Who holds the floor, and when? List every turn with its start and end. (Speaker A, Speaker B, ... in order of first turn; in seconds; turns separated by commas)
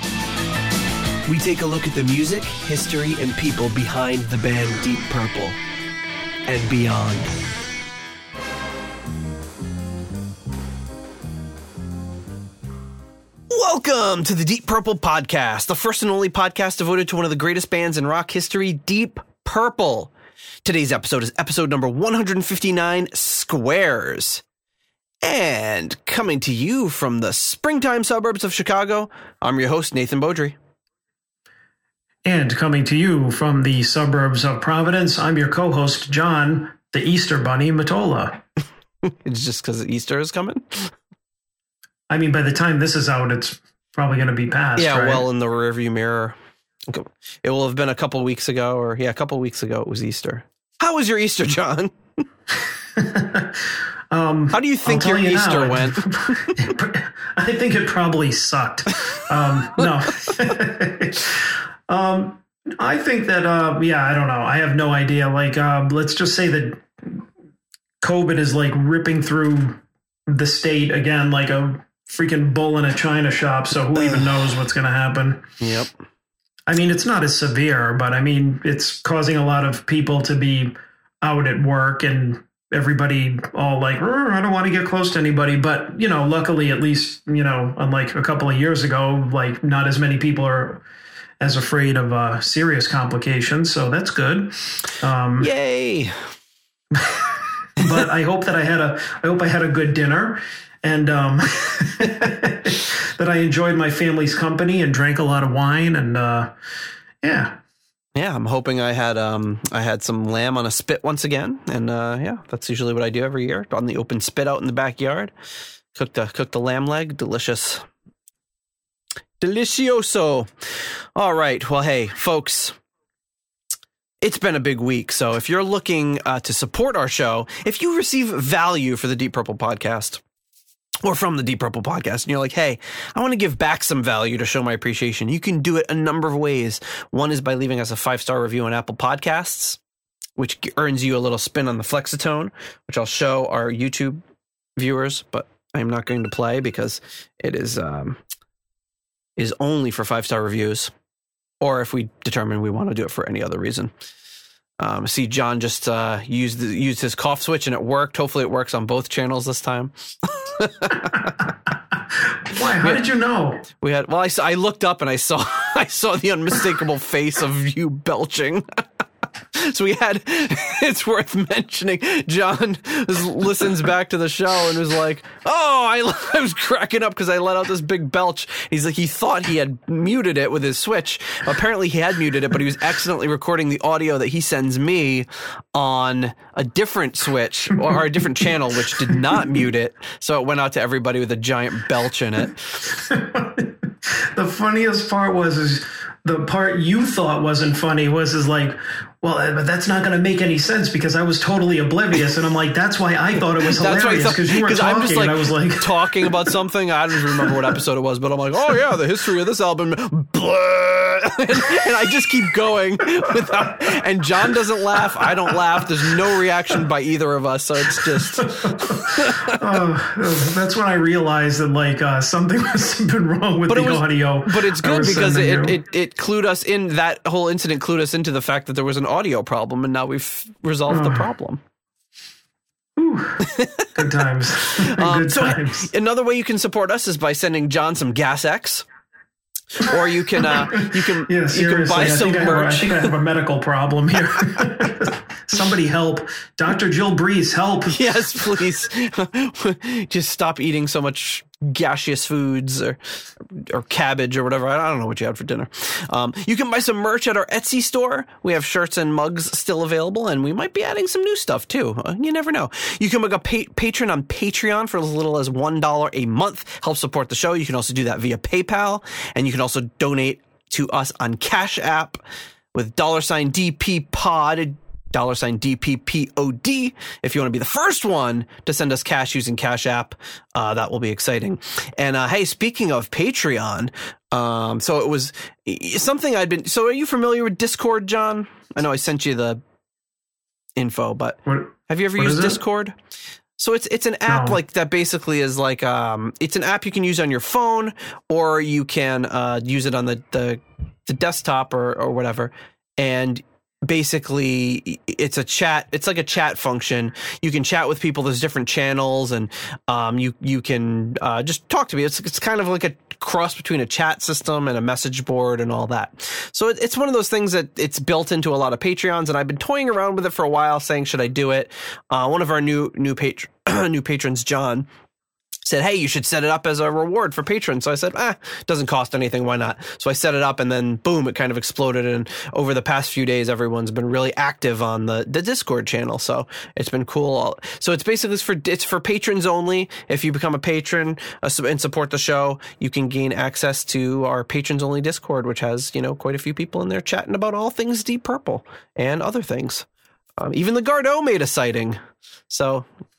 Speaker A: 1.2-5.6, Speaker A: 6.5-7.4, Speaker A: 13.5-20.1, Speaker A: 20.6-24.4, Speaker A: 25.2-30.6, Speaker B: 32.2-38.4, Speaker A: 39.0-41.0, Speaker B: 42.1-45.2, Speaker A: 44.8-46.4, Speaker A: 46.9-51.9, Speaker B: 53.0-67.2, Speaker A: 54.5-56.7, Speaker A: 59.8-60.5, Speaker B: 68.0-75.5, Speaker A: 74.0-74.3, Speaker A: 75.6-75.9, Speaker B: 76.7-90.8, Speaker B: 91.4-95.5, Speaker A: 95.4-96.3, Speaker B: 97.0-106.5, Speaker B: 107.2-107.6, Speaker A: 108.2-115.3, Speaker A: 115.9-117.9, Speaker A: 119.4-122.8, Speaker A: 124.2-130.2, Speaker A: 131.0-139.8, Speaker A: 140.4-144.2, Speaker A: 144.8-148.2, Speaker A: 149.4-150.9, Speaker A: 151.6-153.9, Speaker A: 154.8-161.5, Speaker B: 162.4-163.6, Speaker A: 163.7-168.8, Speaker A: 169.5-192.8, Speaker B: 192.9-206.5, Speaker A: 203.6-219.6, Speaker B: 218.0-225.8, Speaker A: 223.7-231.6, Speaker B: 230.9-231.2, Speaker B: 233.0-235.9, Speaker A: 233.4-234.1, Speaker A: 234.6-238.8, Speaker A: 239.8-243.1, Speaker B: 240.4-248.0, Speaker A: 247.9-272.2, Speaker A: 272.7-289.6, Speaker A: 290.8-292.9, Speaker B: 291.5-292.6, Speaker A: 293.6-324.9, Speaker B: 294.3-294.6, Speaker A: 325.6-349.9, Speaker A: 350.4-352.0, Speaker A: 352.5-352.9